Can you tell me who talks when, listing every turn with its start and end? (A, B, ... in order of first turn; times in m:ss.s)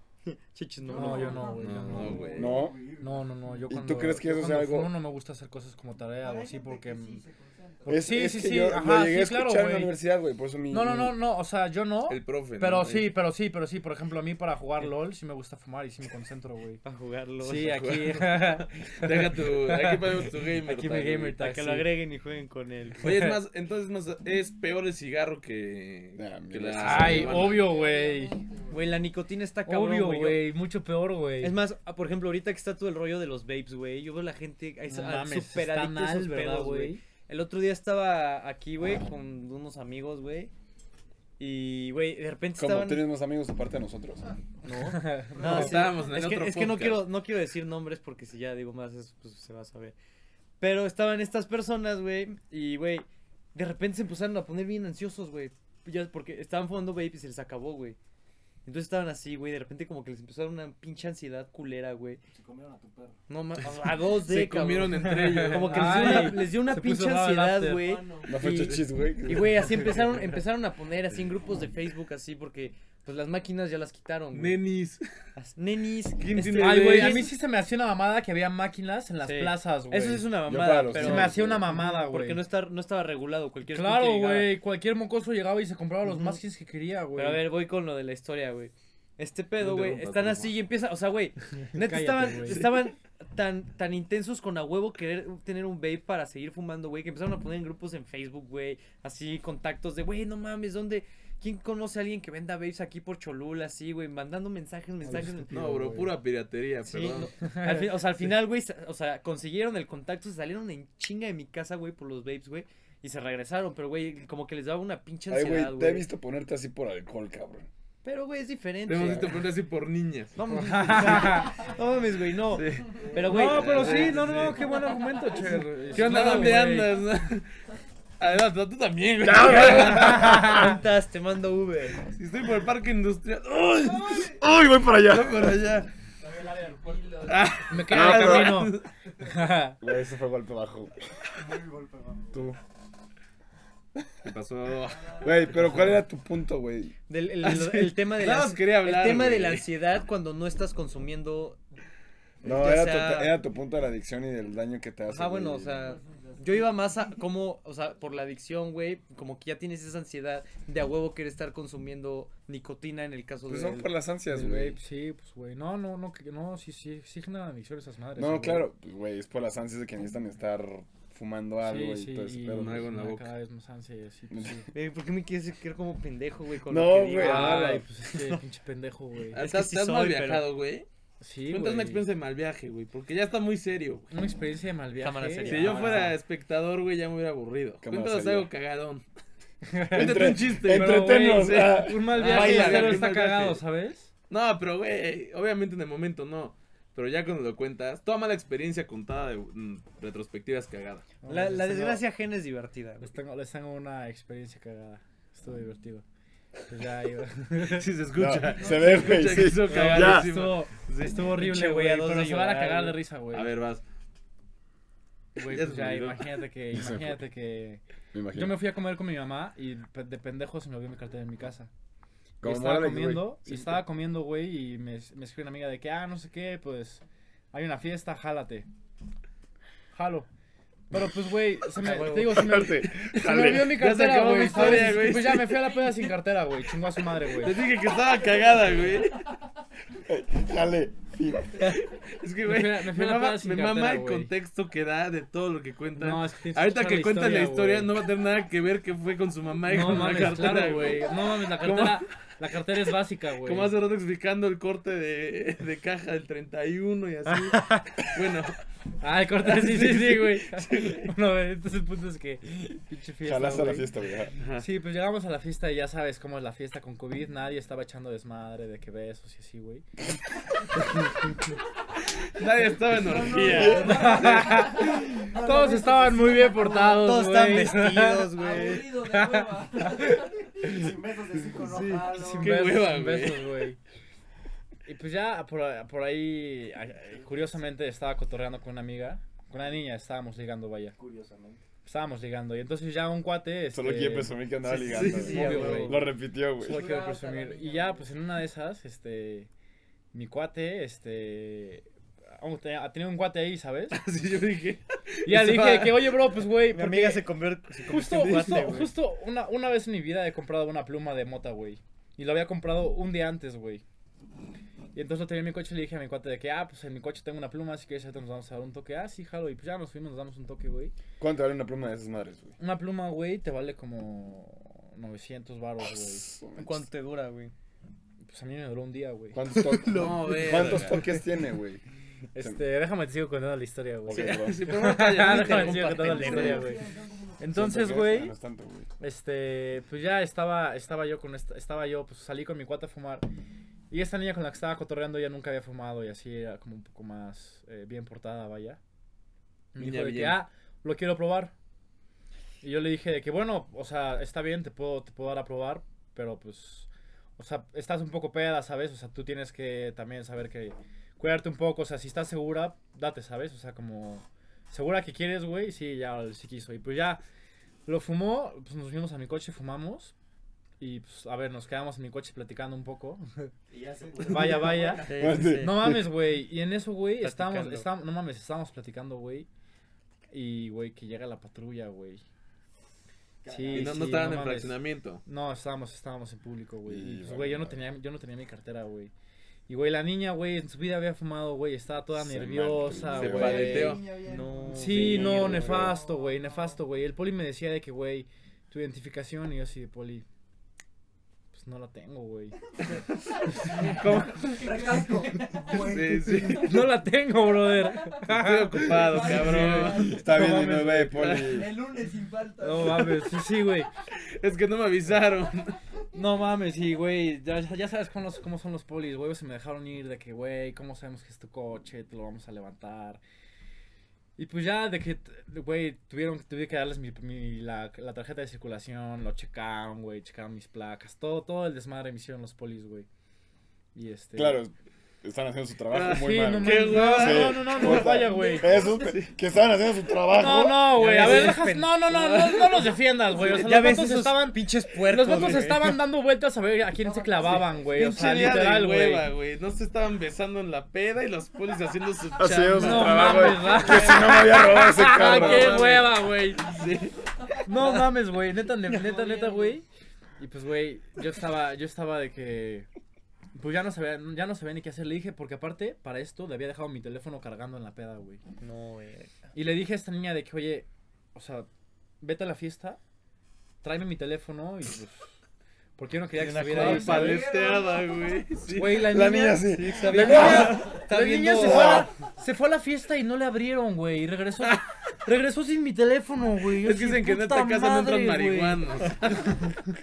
0:00.3-0:01.6 A
0:00.8-0:03.6 B
0:00.9-0:02.4 C
0:01.1-0:02.4 D
0:01.5-0:02.6 E
0:02.4-0:02.8 F
0:03.0-0:07.2 C
0:03.6-0:04.9 F
0:06.2-0:07.9 D
0:06.3-0:07.2 B
0:07.8-0:11.2 F
0:07.9-0:09.9 C
0:10.7-0:16.8 C
0:12.1-0:13.1 E
0:16.8-0:17.8 A
0:17.4-0:21.9 C
0:17.7-0:21.4 E
0:21.4-0:23.2 A
0:23.0-0:27.7 E
0:23.0-0:23.4 C
0:26.2-0:27.6 F
0:26.8-0:28.3 C
0:27.3-0:29.0 D
0:28.7-0:30.4 A
0:29.6-0:31.6 C
0:31.4-0:40.5 A
0:34.8-0:37.0 C
0:41.4-0:43.0 A
0:42.6-0:44.3 F
0:44.6-0:50.0 A
0:44.8-0:45.8 C
0:45.4-0:47.0 E
0:50.6-0:58.0 A
0:58.6-1:02.2 A
1:02.3-1:03.2 B
1:03.3-1:14.6 A
1:04.0-1:06.4 E
1:05.2-1:07.9 C
1:07.8-1:08.3 D
1:08.2-1:10.2 F
1:14.3-1:15.0 E
1:15.4-1:17.3 A
1:16.2-1:17.3 E
1:16.5-1:20.3 C
1:19.2-1:24.5 A
1:20.4-1:21.6 F
1:20.9-1:22.4 C
1:23.7-1:27.4 C
1:26.0-1:26.4 A
1:27.2-1:46.0 A
1:29.6-1:30.5 E
1:31.7-1:32.6 C
1:45.0-1:46.1 C
1:45.5-1:47.3 E
1:46.8-1:56.0 A
1:47.4-1:48.0 C
1:55.3-1:57.7 F
1:58.0-1:59.4 A
1:58.9-2:00.4 E
2:00.3-2:04.4 A
2:00.5-2:01.6 C
2:02.5-2:04.6 E
2:03.2-2:07.0 C
2:03.7-2:06.4 D
2:05.9-2:07.5 E
2:08.2-2:10.4 E
2:09.2-2:10.7 F
2:09.6-2:12.1 A
2:09.8-2:10.7 C
2:12.1-2:14.4 E
2:13.9-2:14.3 D
2:14.4-2:15.6 F
2:15.0-2:15.9 E
2:16.3-2:17.8 D
2:16.6-2:17.0 B
2:17.2-2:18.9 E
2:17.7-2:19.8 C
2:17.9-2:18.7 F
2:19.8-2:20.9 F
2:21.4-2:22.5 B
2:22.3-2:22.6 F
2:24.2-2:25.9 E
2:25.2-2:27.0 F
2:27.1-2:31.6 A
2:27.4-2:29.7 E
2:32.4-2:35.9 F
2:32.4-2:33.3 A
2:35.1-2:43.9 A
2:35.8-2:37.0 D
2:43.5-2:44.8 F
2:44.3-2:48.7 C
2:48.2-2:52.9 F
2:51.6-2:54.7 C
2:52.5-2:53.3 E
2:54.3-2:54.6 F
2:54.7-2:58.4 A
2:56.7-2:57.8 F
2:57.1-2:59.4 C
2:59.3-3:00.4 A
2:59.3-3:00.9 E
3:01.2-3:02.0 C
3:01.5-3:04.1 E
3:04.1-3:06.1 C
3:05.0-3:06.1 A
3:05.4-3:09.0 E
3:07.8-3:08.5 F
3:09.7-3:14.1 C
3:09.9-3:12.1 F
3:09.9-3:13.6 E
3:12.2-3:13.1 A
3:14.3-3:21.1 E
3:21.2-3:22.0 C
3:21.2-3:23.1 A
3:23.0-3:26.0 C
3:26.7-3:27.9 C
3:27.6-3:31.2 E
3:28.1-3:30.3 F
3:29.6-3:33.5 C
3:31.3-3:33.0 A
3:33.3-3:33.8 E
3:35.4-3:41.7 C
3:35.5-3:36.2 E
3:36.7-3:37.2 F
3:38.1-3:38.6 F
3:42.4-3:43.8 F
3:42.4-3:48.7 C
3:49.9-3:50.3 C
3:50.9-3:57.6 C
3:51.8-3:53.8 F
3:51.9-3:52.3 A
3:53.3-3:56.0 E
3:57.4-3:59.2 E
4:00.0-4:01.8 F
4:01.7-4:12.1 E
4:02.4-4:04.3 C
4:06.0-4:07.9 C
4:09.6-4:13.7 C
4:13.4-4:18.6 E
4:17.3-4:17.8 C
4:19.0-4:23.9 C
4:19.4-4:21.1 E
4:23.2-4:24.4 F
4:24.4-4:24.7 E
4:24.6-4:29.8 C
4:32.3-4:34.9 E
4:32.9-4:37.0 D
4:33.4-4:33.9 F
4:33.5-4:34.1 B
4:33.6-4:38.3 C
4:35.1-4:36.9 B
4:36.9-4:39.0 A
4:38.3-4:40.8 D
4:39.0-4:39.4 C
4:40.6-4:42.3 B
4:41.6-4:43.5 E
4:41.7-4:42.7 D
4:42.1-4:43.8 C
4:44.8-4:51.0 C
4:47.0-4:47.5 B
4:51.0-4:51.6 B
4:51.8-4:54.4 C
4:53.7-4:56.9 F
4:54.6-4:56.0 A
4:54.8-4:55.9 E
4:55.2-4:56.0 C
4:56.6-4:59.5 C
4:56.6-4:58.1 D
5:00.1-5:04.0 C
5:03.9-5:06.3 E
5:05.2-5:07.2 C
5:06.7-5:08.9 A
5:07.9-5:13.8 C
5:14.9-5:20.9 C
5:21.2-5:22.6 F
5:22.6-5:26.3 C
5:25.9-5:26.8 F
5:26.5-5:27.5 A
5:28.3-5:29.4 C
5:29.3-5:31.8 F
5:29.5-5:31.2 A
5:29.9-5:31.0 E
5:32.3-5:36.8 C
5:34.0-5:34.6 F
5:34.1-5:36.6 E
5:35.1-5:36.7 A
5:36.3-5:37.3 D
5:37.4-5:38.3 C
5:37.5-5:38.9 F
5:39.0-5:43.2 C
5:43.9-5:48.8 C
5:49.7-5:51.5 C
5:49.8-5:50.4 E
5:52.6-6:07.2 C
6:07.8-6:10.1 C
6:10.8-6:13.5 C
6:13.7-6:15.3 B
6:14.2-6:19.5 C
6:15.0-6:15.9 A
6:15.2-6:16.0 F
6:17.2-6:17.9 A
6:20.3-6:22.2 C
6:23.4-6:24.1 B
6:23.5-6:29.1 C
6:23.7-6:25.2 E
6:26.8-6:27.8 F
6:29.7-6:34.0 C
6:32.1-6:33.9 F
6:33.1-6:34.0 E
6:33.3-6:36.8 D
6:34.2-6:35.8 A
6:34.7-6:40.2 C
6:34.9-6:36.0 F
6:41.5-6:42.5 C
6:43.0-6:44.9 E
6:43.4-6:46.8 D
6:44.0-6:44.6 C
6:44.6-6:46.7 B
6:45.7-6:46.8 E
6:46.5-6:51.3 C
6:48.3-6:50.2 E
6:48.8-6:50.4 D
6:49.9-6:51.7 F
6:51.1-6:51.6 E
6:51.2-6:53.4 D
6:52.6-6:53.9 C
6:54.3-6:55.7 E
6:56.1-7:03.2 C
7:04.4-7:13.1 C
7:13.9-7:14.6 C
7:14.3-7:21.2 F
7:15.9-7:18.2 E
7:16.1-7:18.8 C
7:18.4-7:18.9 D
7:19.0-7:19.3 E
7:20.3-7:29.2 C
7:20.9-7:22.9 A
7:23.4-7:26.0 A
7:25.3-7:25.5 E
7:27.0-7:27.9 B
7:27.9-7:33.7 E
7:32.4-7:36.0 F
7:32.8-7:36.7 C
7:35.0-7:37.1 E
7:37.6-7:39.8 C
7:38.9-7:39.8 D
7:40.4-7:42.9 C
7:43.5-7:48.4 C
7:48.6-7:49.3 A
7:49.5-7:51.7 C
7:52.2-7:53.0 C
7:53.8-7:55.3 C
7:56.0-7:57.5 C
7:56.3-7:57.5 A
7:56.7-7:59.1 E
7:57.1-7:58.5 D
7:58.7-8:09.7 C
7:58.8-8:00.8 F
7:59.6-8:02.1 A
8:01.6-8:02.1 F
8:06.8-8:09.7 E